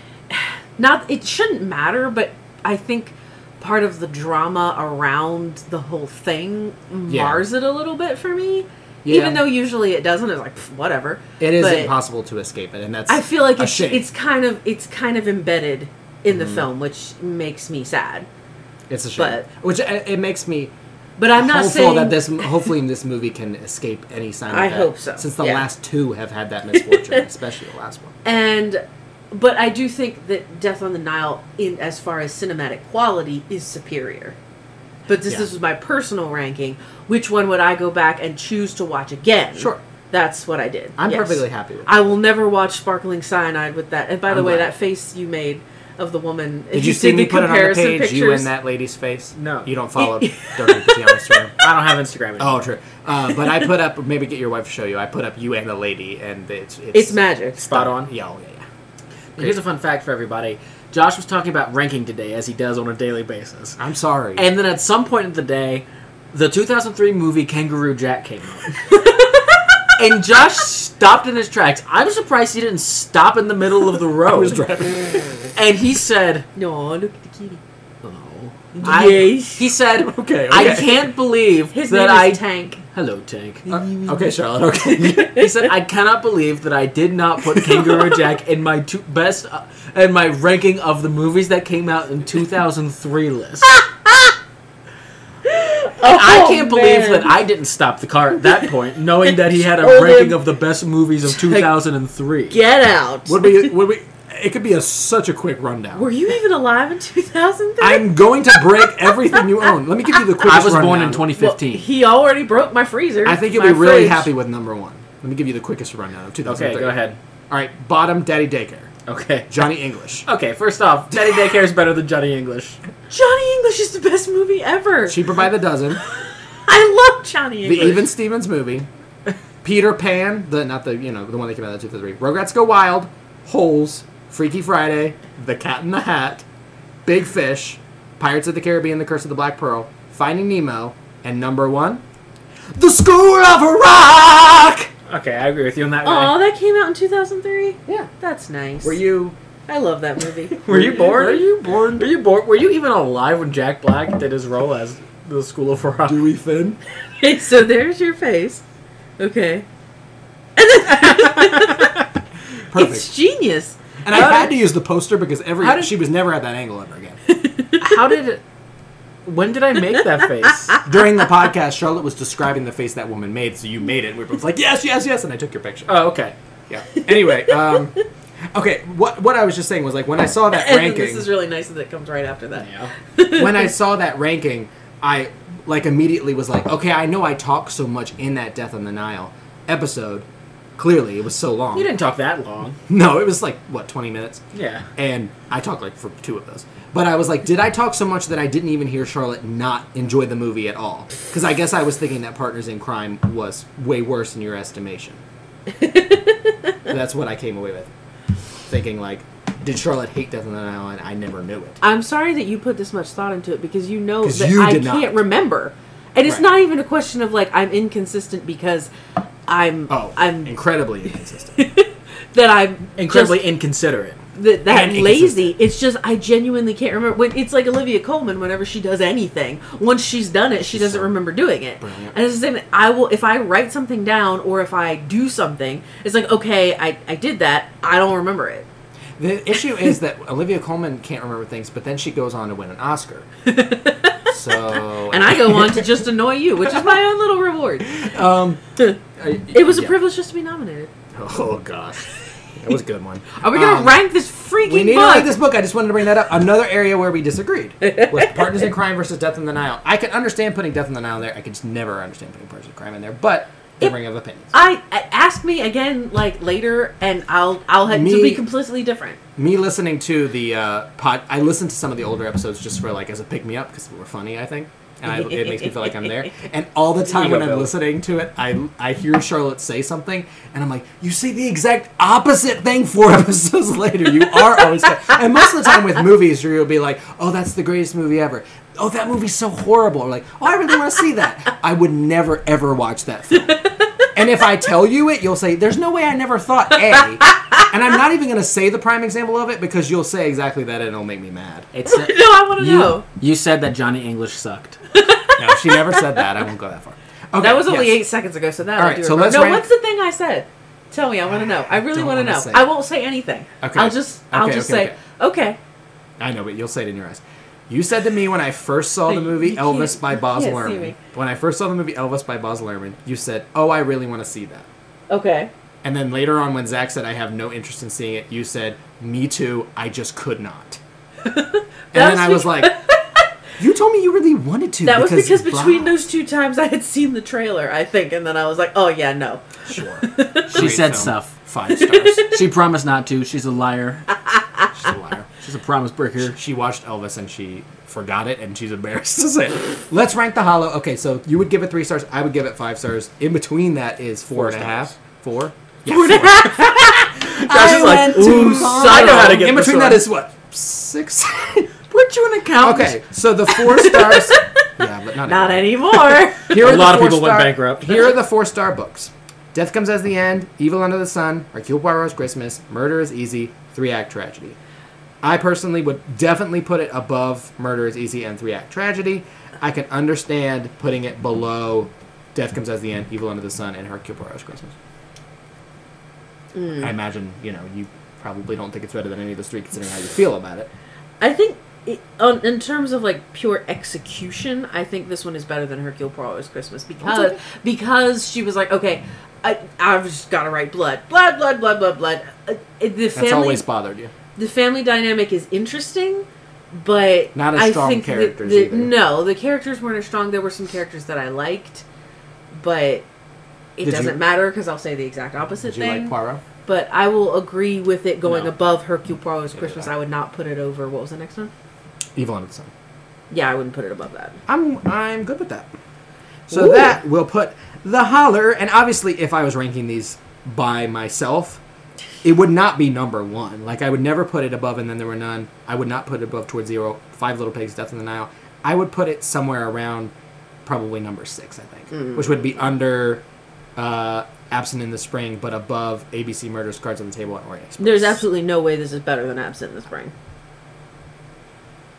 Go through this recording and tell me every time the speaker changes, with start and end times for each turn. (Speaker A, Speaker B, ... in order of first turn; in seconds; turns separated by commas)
Speaker A: 0.3-11.9, Speaker B: 7.1-7.5, Speaker B: 9.0-9.4, Speaker B: 11.4-14.1, Speaker A: 13.1-18.3, Speaker B: 16.3-16.7, Speaker B: 18.9-20.7, Speaker A: 19.2-19.4, Speaker A: 21.2-22.7, Speaker B: 21.4-28.2, Speaker A: 24.5-25.6, Speaker A: 26.7-27.2, Speaker A: 28.2-34.4, Speaker A: 35.1-48.5, Speaker B: 39.6-39.8, Speaker B: 41.0-41.9, Speaker B: 44.3-44.7, Speaker B: 46.7-51.5, Speaker C: 49.4-49.7, Speaker A: 50.0-51.4, Speaker C: 51.6-52.7, Speaker B: 52.4-58.6, Speaker A: 56.9-57.6, Speaker C: 57.6-58.1, Speaker C: 59.4-63.8, Speaker B: 63.8-64.4, Speaker C: 64.3-69.0, Speaker A: 68.9-69.9, Speaker C: 70.0-74.6, Speaker B: 74.2-75.3, Speaker C: 75.5-76.5, Speaker A: 76.5-77.6, Speaker C: 78.0-83.8, Speaker A: 78.7-79.7, Speaker B: 78.8-79.2, Speaker B: 79.9-81.1, Speaker A: 81.7-82.8, Speaker B: 83.7-85.4, Speaker C: 85.2-93.7, Speaker B: 87.5-88.1, Speaker A: 93.7-94.3, Speaker A: 95.4-97.3, Speaker C: 96.0-102.6, Speaker A: 99.2-100.4, Speaker A: 101.4-101.7, Speaker A: 102.5-103.7, Speaker B: 103.2-106.1, Speaker A: 105.9-108.8, Speaker B: 107.8-111.3, Speaker A: 109.3-109.6, Speaker C: 110.4-111.8, Speaker A: 111.3-114.3, Speaker B: 113.2-118.9, Speaker C: 116.4-117.2, Speaker C: 119.0-119.5, Speaker B: 119.5-120.3, Speaker C: 120.2-122.8, Speaker A: 123.1-125.3, Speaker B: 125.1-126.0, Speaker A: 126.6-128.1, Speaker B: 127.6-128.9, Speaker B: 129.6-136.4, Speaker B: 137.1-142.0, Speaker B: 142.7-144.9, Speaker C: 145.1-146.3, Speaker A: 146.0-149.0, Speaker B: 148.8-149.3, Speaker A: 149.7-150.6, Speaker B: 150.5-152.1, Speaker C: 150.6-156.2, Speaker B: 156.0-156.8, Speaker A: 157.2-158.6, Speaker A: 159.2-159.7, Speaker A: 160.6-161.9, Speaker C: 161.2-161.8, Speaker B: 162.7-163.1, Speaker A: 162.7-163.8, Speaker B: 164.0-167.2, Speaker C: 164.1-164.5, Speaker C: 165.6-165.9, Speaker A: 167.3-168.0, Speaker C: 167.8-168.4, Speaker C: 169.2-170.8, Speaker B: 170.8-175.9, Speaker C: 175.9-176.3, Speaker B: 176.7-178.0, Speaker B: 178.5-181.3, Speaker A: 180.5-183.7, Speaker C: 182.6-182.9, Speaker B: 183.3-190.2, Speaker B: 190.8-191.9, Speaker C: 191.7-192.8, Speaker B: 192.9-194.4, Speaker C: 194.5-194.8, Speaker B: 195.0-205.2, Speaker A: 205.7-206.7, Speaker B: 206.9-207.9, Speaker B: 208.7-211.8, Speaker A: 211.8-218.9, Speaker B: 214.2-215.2, Speaker A: 219.5-220.5, Speaker B: 219.9-221.6, Speaker A: 221.6-223.4, Speaker C: 223.0-224.2, Speaker A: 224.3-238.7, Speaker B: 224.7-225.5, Speaker B: 230.6-231.1, Speaker B: 231.8-232.2, Speaker B: 239.2-243.3, Speaker A: 243.4-244.3, Speaker B: 244.3-245.9, Speaker A: 245.1-247.9, Speaker B: 247.9-248.6, Speaker B: 249.2-249.9, Speaker A: 249.5-250.9, Speaker B: 251.1-254.0, Speaker A: 253.3-255.3, Speaker B: 254.6-264.5, Speaker A: 257.8-258.4, Speaker A: 264.5-269.2, Speaker B: 267.8-268.4, Speaker B: 269.4-293.6, Speaker A: 275.1-276.1, Speaker C: 277.1-277.7, Speaker B: 294.1-301.7, Speaker A: 297.2-297.6, Speaker C: 301.7-304.8, Speaker A: 301.9-303.0, Speaker A: 304.9-306.2, Speaker B: 305.4-308.0, Speaker A: 307.4-315.6, Speaker B: 308.8-309.6, Speaker B: 311.7-312.7, Speaker B: 313.6-315.0, Speaker B: 316.2-324.7, Speaker A: 319.1-321.0, Speaker A: 325.1-325.5, Speaker B: 325.8-330.8, Speaker A: 331.2-333.0, Speaker B: 331.9-332.8, Speaker B: 333.6-335.9, Speaker A: 334.8-339.4, Speaker B: 339.7-342.3, Speaker A: 340.0-340.6, Speaker C: 340.5-341.3, Speaker A: 341.7-342.3, Speaker C: 342.2-344.1, Speaker B: 344.7-345.3, Speaker C: 345.4-346.4, Speaker B: 346.2-361.7, Speaker C: 354.3-354.9, Speaker A: 355.9-359.4, Speaker C: 356.3-360.0, Speaker C: 361.9-363.0, Speaker B: 362.6-365.9, Speaker A: 363.5-364.7, Speaker A: 365.2-366.6, Speaker B: 366.5-374.6, Speaker C: 366.5-368.1, Speaker B: 375.2-384.7, Speaker A: 386.6-386.9, Speaker B: 386.8-390.7, Speaker A: 391.2-403.6, Speaker B: 397.0-397.4, Speaker B: 403.1-404.1, Speaker A: 404.4-411.8, Speaker B: 407.3-408.9, Speaker A: 412.5-413.1, Speaker A: 413.8-416.1, Speaker B: 413.8-414.2, Speaker B: 415.6-416.4, Speaker A: 416.6-421.5, Speaker B: 419.5-419.9, Speaker B: 422.1-422.7, Speaker A: 423.3-424.4, Speaker B: 424.5-425.7, Speaker B: 426.5-431.6, Speaker A: 426.5-426.9, Speaker B: 432.2-440.1, Speaker B: 440.6-443.2, Speaker A: 441.9-442.3, Speaker B: 443.8-448.2, Speaker A: 447.8-450.1